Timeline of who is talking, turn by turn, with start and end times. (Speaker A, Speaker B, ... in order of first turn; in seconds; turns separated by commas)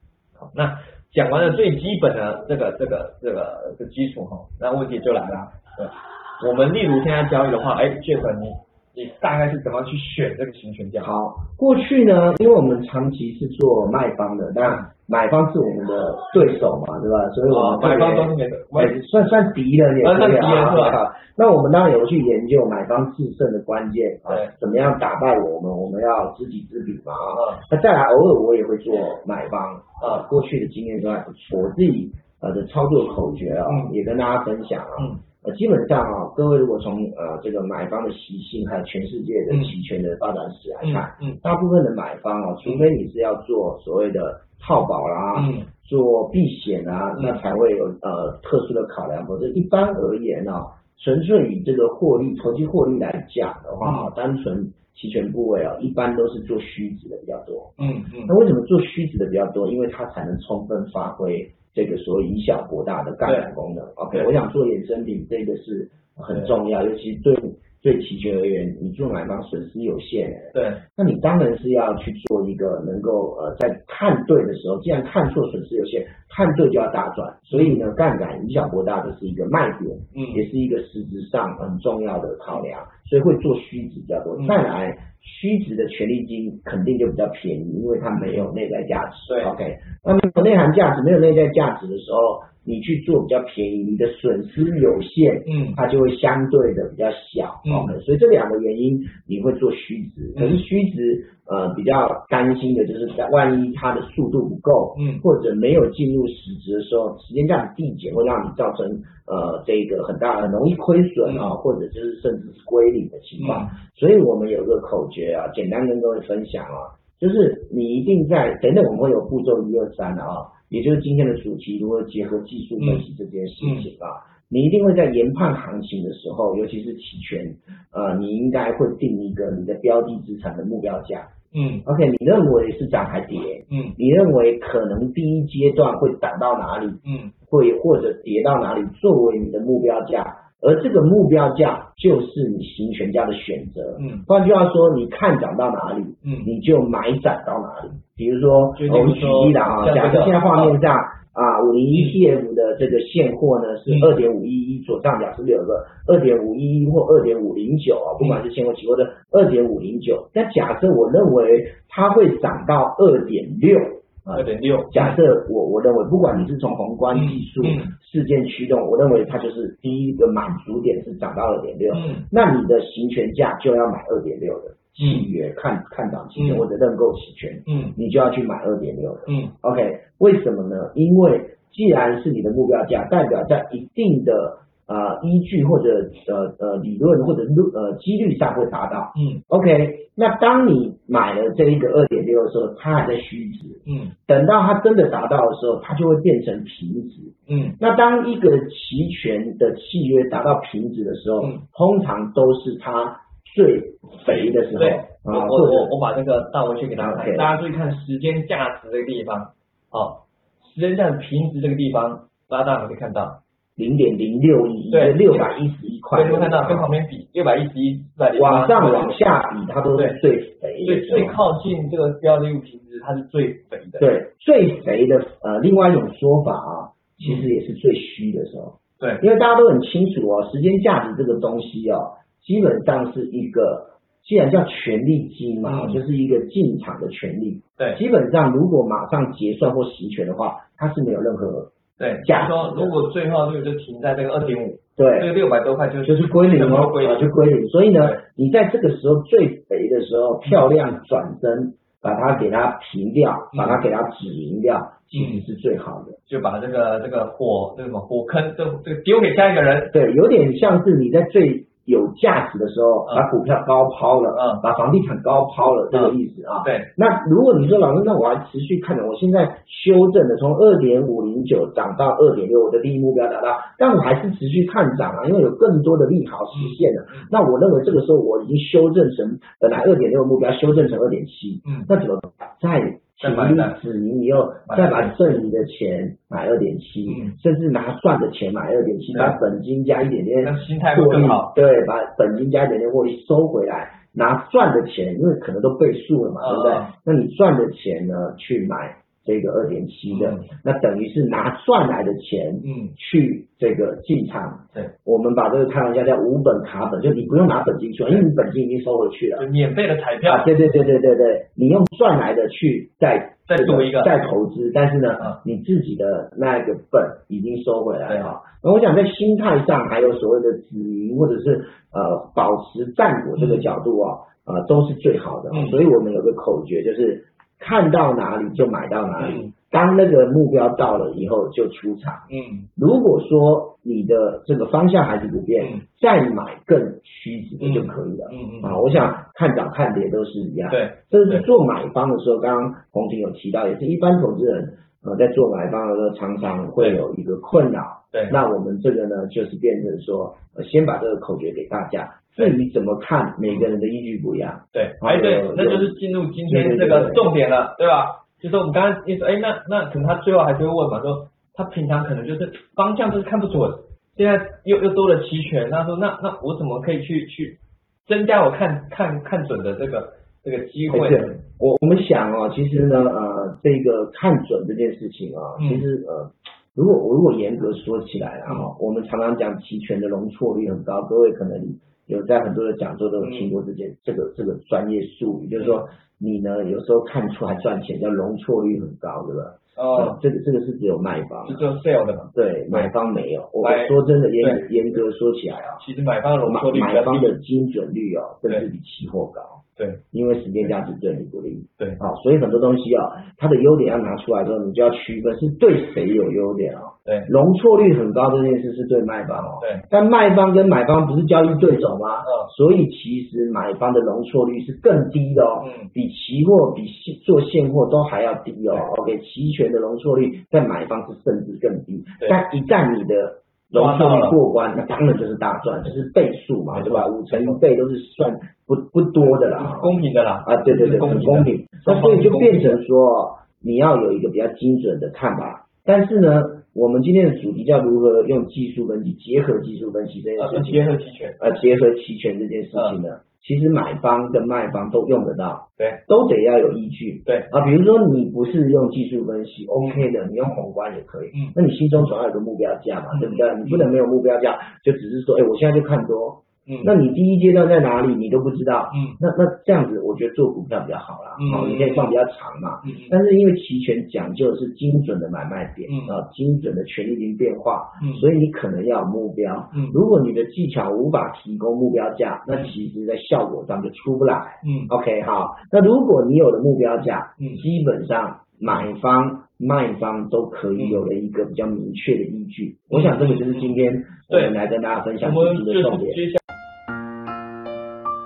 Speaker A: 0.4-11.1, Speaker B: 11.0-131.3, Speaker A: 17.5-18.9, Speaker A: 20.0-21.0, Speaker A: 24.2-24.5, Speaker A: 27.3-27.6, Speaker A: 33.6-33.9, Speaker A: 40.8-41.4, Speaker A: 45.3-45.6, Speaker A: 53.8-54.1, Speaker A: 57.8-58.3, Speaker A: 70.5-70.8, Speaker A: 77.5-77.8, Speaker A: 80.1-80.4, Speaker A: 88.2-88.5, Speaker A: 95.5-95.8, Speaker A: 97.6-97.9, Speaker A: 100.3-100.6, Speaker A: 105.0-105.2, Speaker A: 111.2-111.5, Speaker A: 113.4-113.7, Speaker A: 122.8-123.0, Speaker A: 123.6-123.9, Speaker A: 131.5-131.8, Speaker B: 131.8-205.9, Speaker A: 133.7-133.9, Speaker A: 137.0-137.3, Speaker A: 144.0-144.3, Speaker A: 146.2-146.5, Speaker A: 148.7-150.8, Speaker A: 151.9-152.2, Speaker A: 153.9-154.2, Speaker A: 164.3-165.2, Speaker A: 167.1-167.9, Speaker A: 171.9-172.2, Speaker A: 175.0-175.3, Speaker A: 176.4-176.7, Speaker A: 177.7-177.9, Speaker A: 179.2-179.5, Speaker A: 189.1-189.4, Speaker A: 193.8-194.1, Speaker A: 197.5-197.8, Speaker A: 204.2-213.4, Speaker B: 206.9-207.5, Speaker B: 213.8-216.9, Speaker A: 214.9-215.5, Speaker A: 216.1-219.3, Speaker B: 218.3-221.4, Speaker A: 220.8-224.1, Speaker B: 224.0-242.9, Speaker A: 227.2-227.5, Speaker A: 235.6-236.0, Speaker A: 242.0-247.3, Speaker B: 245.0-245.3, Speaker B: 246.0-256.2, Speaker A: 253.5-253.8, Speaker A: 255.1-255.4, Speaker A: 256.3-259.9, Speaker B: 259.9-309.4, Speaker A: 264.3-264.6, Speaker A: 265.9-266.9, Speaker A: 276.5-277.3, Speaker A: 283.2-283.8, Speaker A: 284.6-285.4, Speaker A: 287.1-287.4, Speaker A: 289.1-289.4, Speaker A: 290.4-291.5, Speaker A: 296.4-296.9, Speaker A: 300.1-300.4, Speaker A: 302.6-302.9, Speaker A: 309.4-310.5, Speaker B: 310.2-355.9, Speaker A: 313.5-314.1, Speaker A: 323.4-323.7, Speaker A: 325.5-325.8, Speaker A: 329.2-329.5, Speaker A: 332.3-332.7, Speaker A: 337.6-338.8, Speaker A: 340.7-341.4, Speaker A: 348.1-348.4, Speaker A: 354.7-371.4, Speaker B: 356.5-357.3, Speaker B: 370.9-391.6, Speaker A: 375.6-375.8, Speaker A: 383.2-383.5, Speaker A: 389.8-390.2, Speaker A: 391.4-392.9, Speaker B: 392.3-395.8, Speaker A: 393.6-394.6, Speaker A: 395.8-397.3, Speaker B: 396.4-399.6, Speaker B: 400.1-440.9, Speaker A: 407.1-407.3, Speaker A: 409.3-409.9, Speaker A: 412.2-412.5, Speaker A: 415.6-415.9, Speaker A: 423.7-424.4, Speaker A: 426.7-427.6, Speaker A: 429.5-432.8, Speaker A: 440.4-441.4, Speaker B: 441.4-486.2, Speaker A: 442.7-443.0, Speaker A: 449.8-450.1, Speaker A: 453.1-453.9, Speaker A: 456.7-456.9, Speaker A: 458.9-459.2, Speaker A: 461.4-462.1, Speaker A: 462.8-463.1, Speaker A: 465.9-466.1, Speaker A: 469.7-470.0, Speaker A: 474.6-474.9, Speaker A: 480.8-481.0, Speaker A: 482.9-483.7, Speaker A: 484.3-484.6, Speaker A: 485.2-486.4